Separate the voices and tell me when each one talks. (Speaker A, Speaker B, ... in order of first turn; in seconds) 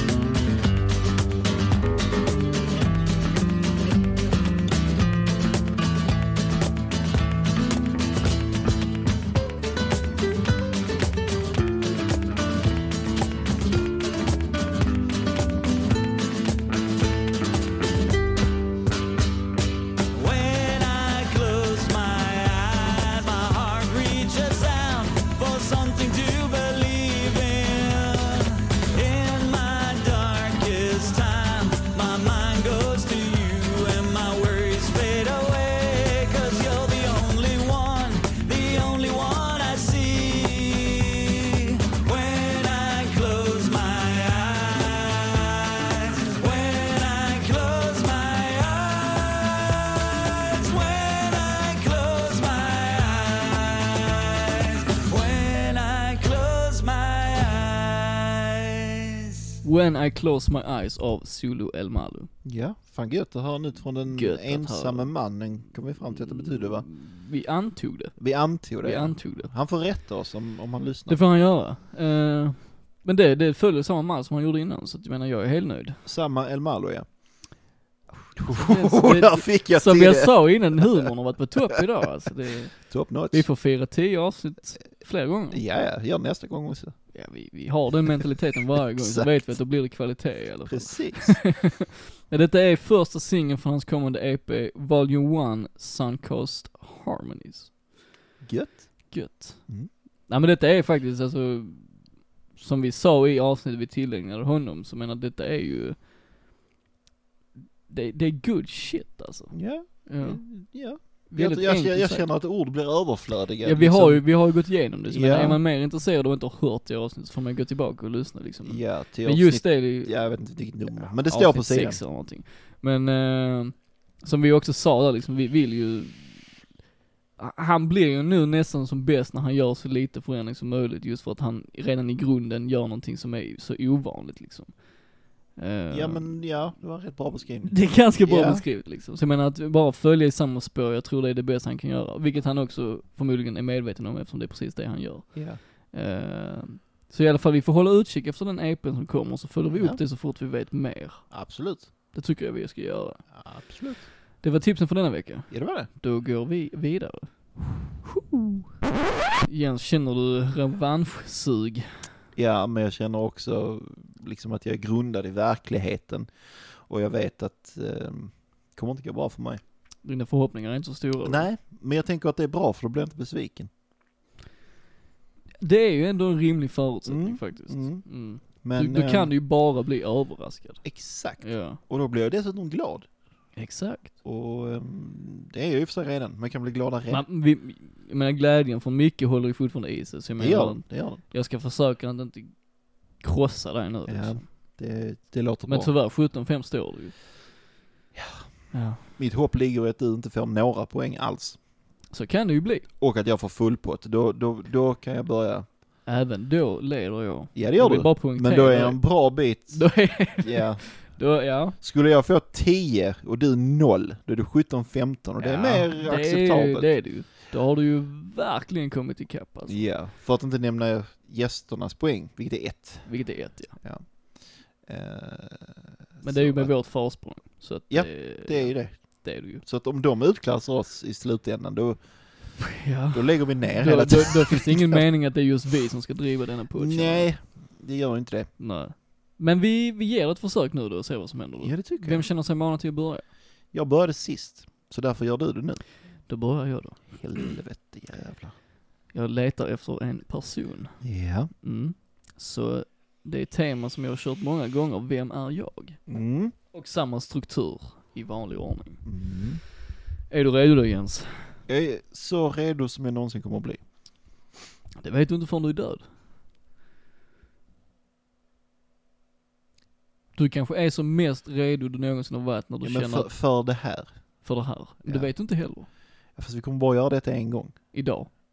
Speaker A: 20.1-59.4
Speaker B: 59.6-62.3, 64.1-65.1, 66.1-69.5, 71.1-76.0, 78.5-85.6, 87.1-97.7, 99.1-99.7, 100.3-106.0, 107.9-110.5, 111.3-112.3, 113.6-120.1, 121.0-126.5, 127.4-134.9, 135.4-136.4, 137.7-151.3, 152.1-153.3, 154.4-158.5, 159.4-162.1, 170.0-171.4, 175.6-180.8, 181.4-181.8, 183.6-184.1, 187.1-194.4, 195.7-197.2, 198.7-199.0, 202.1-202.9, 206.1-211.8, 215.4-219.8, 223.1-223.8, 226.2-229.6, 232.6-237.3, 238.6-243.3, 246.3-247.5, 249.1-251.0, 251.6-256.0, 256.7-259.1, 260.3-261.6, 264.9-266.0, 270.3-273.3, 274.4-275.9, 277.9-278.3
Speaker C: 62.4-66.8, 68.2-71.2, 76.0-77.1, 78.3-81.1, 82.8-83.5, 85.5-87.0, 89.0-89.5, 90.7-91.5, 98.4-99.1, 109.5-114.3, 115.1-115.6, 118.6-122.0, 135.9-138.6, 145.3-145.6, 149.7-150.0, 151.3-151.9, 153.3-154.1, 155.5-155.9, 162.3-169.6, 171.2-173.7, 177.1-179.3, 180.8-183.1, 184.2-187.2, 190.4-191.2, 194.1-195.9, 198.1-201.6, 203.0-205.7, 207.5-211.2, 211.8-216.9, 219.7-226.7, 227.9-232.6, 233.1-235.0, 236.7-238.5, 241.6-242.3, 243.7-245.8, 247.1-248.6, 251.0-251.5, 256.1-256.5, 259.0-259.6, 261.7-263.8, 272.8-274.4, 275.0-275.3, 276.3-277.8